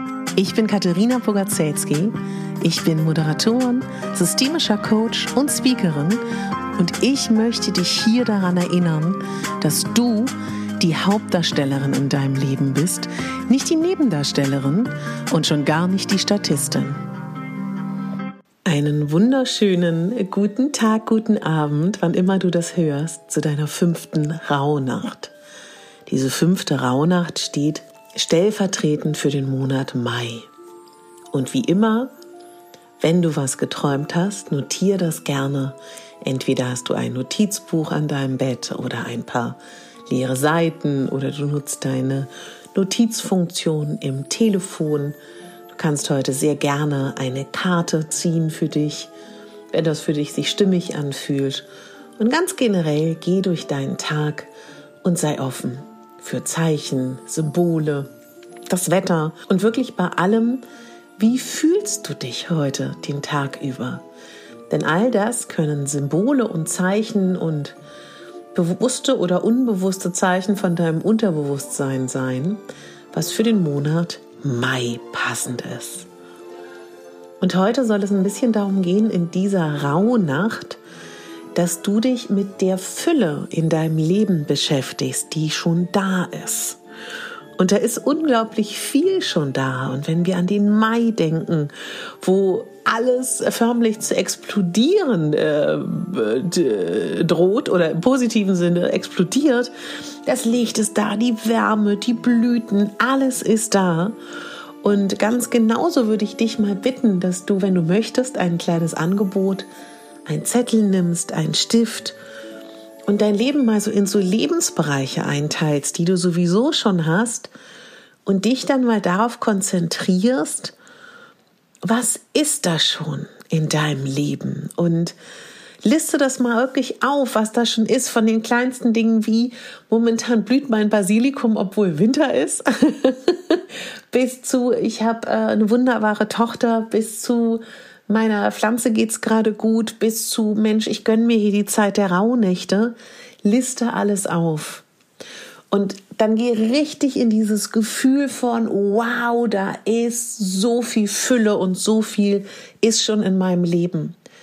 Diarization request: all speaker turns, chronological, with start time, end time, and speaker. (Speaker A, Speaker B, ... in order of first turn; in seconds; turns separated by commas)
Speaker A: 0.4-6.2, Speaker A: 6.8-17.0, Speaker A: 18.7-25.3, Speaker A: 26.1-30.5, Speaker A: 31.3-32.1, Speaker A: 33.0-45.2, Speaker A: 45.7-49.1, Speaker A: 49.7-51.7, Speaker A: 52.2-54.5, Speaker A: 55.0-58.1, Speaker A: 58.7-60.6, Speaker A: 61.2-64.0, Speaker A: 64.7-67.8, Speaker A: 68.5-72.6, Speaker A: 73.1-76.1, Speaker A: 77.4-80.8, Speaker A: 81.5-86.8, Speaker A: 87.6-99.7, Speaker A: 100.3-104.2, Speaker A: 104.8-109.7, Speaker A: 110.3-112.2, Speaker A: 113.1-117.5, Speaker A: 118.3-120.7, Speaker A: 121.8-125.2, Speaker A: 125.8-144.8, Speaker A: 145.7-154.2